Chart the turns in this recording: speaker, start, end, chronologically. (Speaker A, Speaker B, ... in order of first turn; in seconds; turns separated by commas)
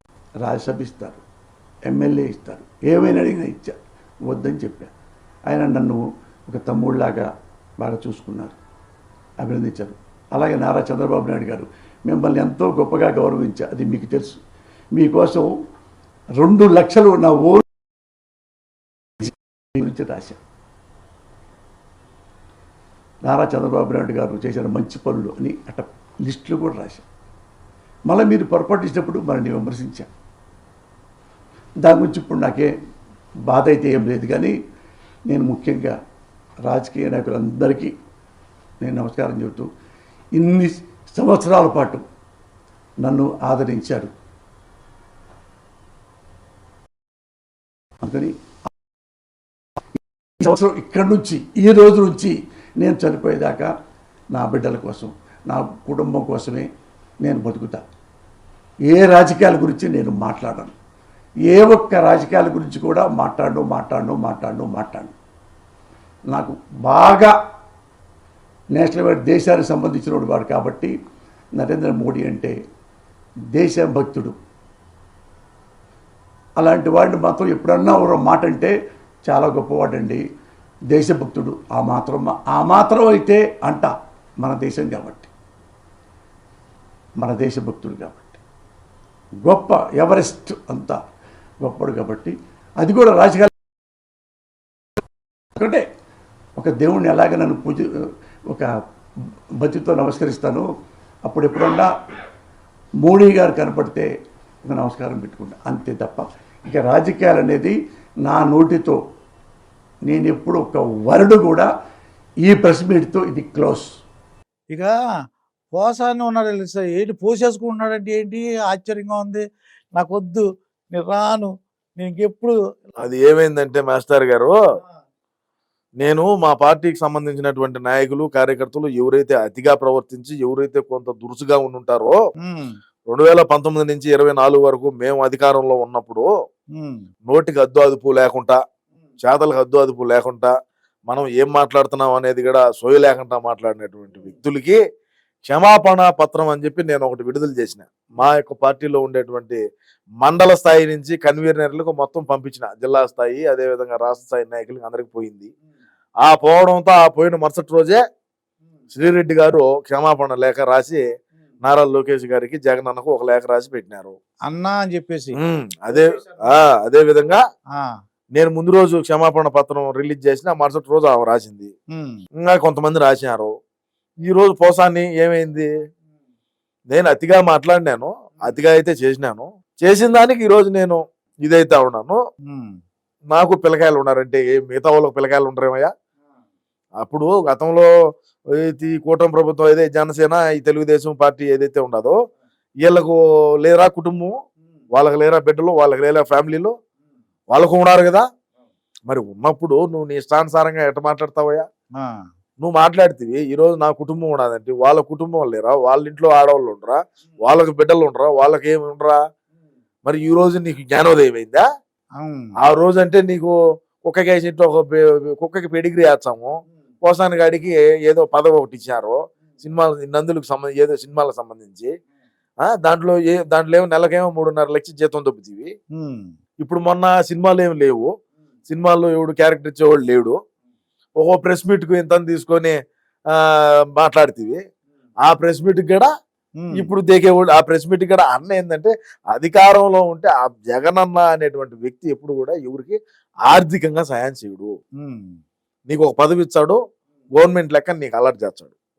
Speaker A: 0.4-1.2, Speaker A: 1.9-3.7, Speaker A: 4.3-4.9, Speaker A: 5.5-7.3, Speaker A: 7.8-8.6, Speaker A: 9.4-14.4, Speaker A: 15.0-15.5, Speaker A: 16.4-17.6, Speaker A: 19.2-20.4, Speaker A: 23.2-27.1, Speaker A: 28.1-30.1, Speaker A: 31.8-32.7, Speaker A: 33.5-34.5, Speaker A: 35.3-35.9, Speaker A: 36.7-37.9, Speaker A: 38.8-39.7, Speaker A: 40.4-42.0, Speaker A: 43.0-44.1, Speaker A: 48.0-48.3, Speaker A: 50.4-53.7, Speaker A: 54.3-56.7, Speaker A: 57.2-57.8, Speaker A: 58.9-60.8, Speaker A: 61.5-65.1, Speaker A: 66.3-67.3, Speaker A: 68.8-70.9, Speaker A: 71.6-72.5, Speaker A: 73.5-74.3, Speaker A: 76.6-78.7, Speaker A: 79.3-80.2, Speaker A: 80.9-85.3, Speaker A: 87.2-88.4, Speaker A: 89.4-91.0, Speaker A: 91.6-93.5, Speaker A: 95.5-95.8, Speaker A: 96.6-97.9, Speaker A: 99.6-100.7, Speaker A: 101.3-101.9, Speaker A: 103.0-104.1, Speaker A: 104.7-109.0, Speaker A: 110.1-111.7, Speaker A: 112.4-113.9, Speaker B: 115.7-119.4, Speaker B: 120.0-121.5, Speaker B: 122.0-122.5, Speaker C: 123.0-124.5, Speaker C: 126.0-132.2, Speaker B: 132.4-132.8, Speaker C: 133.1-136.3, Speaker B: 136.8-137.0, Speaker C: 137.3-138.6, Speaker C: 139.2-140.5, Speaker C: 141.1-144.8, Speaker C: 145.5-149.6, Speaker C: 150.2-155.5, Speaker C: 156.2-158.0, Speaker C: 158.9-161.0, Speaker C: 161.6-164.2, Speaker B: 164.5-165.4, Speaker C: 165.3-167.4, Speaker B: 165.9-166.4, Speaker C: 168.3-171.7, Speaker C: 172.4-173.5, Speaker C: 174.2-175.7, Speaker C: 176.9-182.2, Speaker B: 182.5-182.7, Speaker C: 183.3-185.9, Speaker C: 187.0-187.9, Speaker C: 188.5-192.2, Speaker C: 192.8-194.3, Speaker C: 194.9-196.7, Speaker C: 197.5-198.2, Speaker C: 199.1-201.7, Speaker C: 202.6-209.2, Speaker C: 210.0-211.6, Speaker B: 212.2-212.5, Speaker C: 212.6-221.9, Speaker C: 222.6-225.7, Speaker B: 226.0-226.3, Speaker C: 226.6-228.1, Speaker C: 228.7-230.4, Speaker C: 231.2-232.7, Speaker C: 233.3-234.6, Speaker C: 235.2-236.1, Speaker B: 236.6-236.9, Speaker C: 236.7-244.7, Speaker B: 245.0-245.4, Speaker C: 245.9-246.8, Speaker C: 247.4-248.7